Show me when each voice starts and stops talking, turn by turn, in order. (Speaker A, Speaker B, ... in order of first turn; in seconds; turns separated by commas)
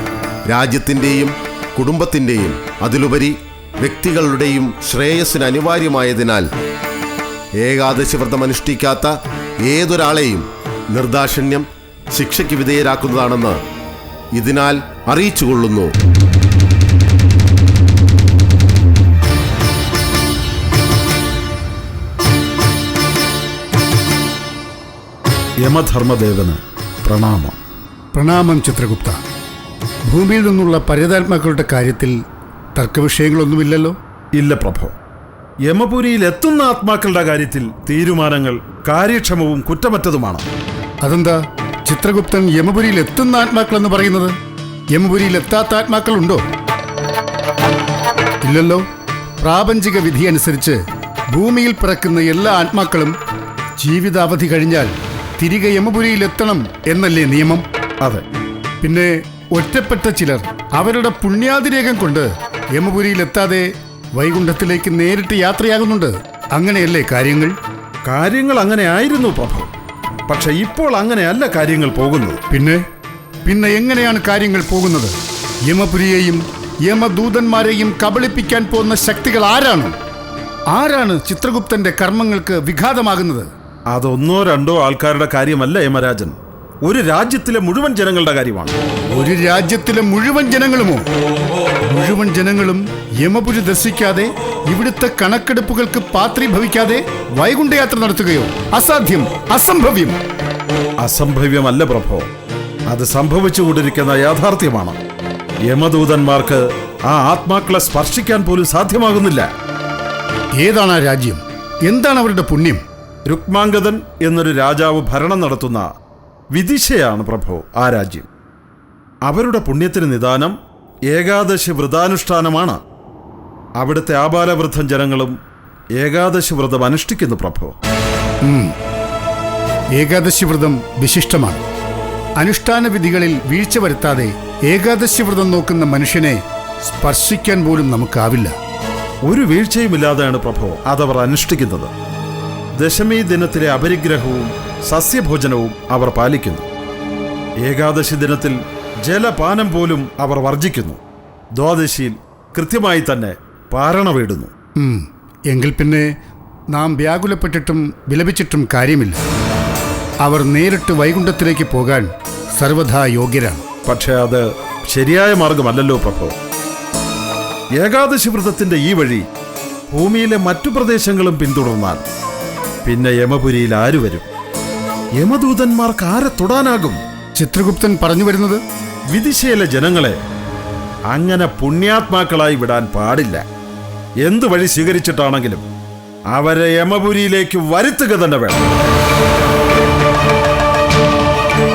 Speaker A: 0.5-6.4, Speaker A: 7.6-13.6, Speaker A: 14.3-15.9, Speaker B: 25.6-27.6, Speaker C: 28.1-29.2, Speaker C: 30.1-32.2, Speaker C: 32.8-33.9, Speaker B: 34.3-34.9, Speaker B: 35.7-40.4, Speaker C: 41.0-44.3, Speaker C: 44.9-46.4, Speaker C: 48.4-48.8, Speaker C: 49.4-50.8, Speaker C: 51.3-53.1, Speaker C: 53.8-57.6, Speaker C: 58.8-67.5, Speaker B: 68.0-69.7, Speaker B: 70.3-72.4, Speaker C: 72.5-72.8, Speaker C: 73.5-75.1, Speaker C: 75.7-79.9, Speaker C: 80.7-83.5, Speaker B: 83.9-88.7, Speaker C: 89.1-91.0, Speaker C: 91.9-100.2, Speaker B: 101.0-102.3, Speaker B: 102.9-105.0, Speaker B: 105.7-109.5, Speaker C: 110.6-112.8, Speaker B: 113.3-115.9, Speaker B: 116.5-118.3, Speaker B: 119.2-120.5, Speaker B: 121.1-122.8, Speaker B: 123.8-125.4, Speaker B: 126.0-127.7, Speaker C: 129.9-131.6, Speaker C: 132.4-138.5, Speaker B: 139.2-141.9, Speaker B: 142.8-146.6, Speaker B: 147.6-148.5, Speaker B: 149.1-151.0, Speaker B: 151.6-154.5, Speaker C: 154.8-156.1, Speaker C: 156.7-159.2, Speaker C: 160.2-163.6, Speaker B: 163.8-166.3, Speaker B: 167.8-169.2, Speaker B: 169.9-172.0, Speaker B: 172.8-174.2, Speaker B: 175.2-177.0, Speaker C: 177.3-178.6, Speaker B: 179.1-180.2, Speaker B: 181.1-183.4, Speaker B: 184.2-185.6, Speaker B: 186.3-188.6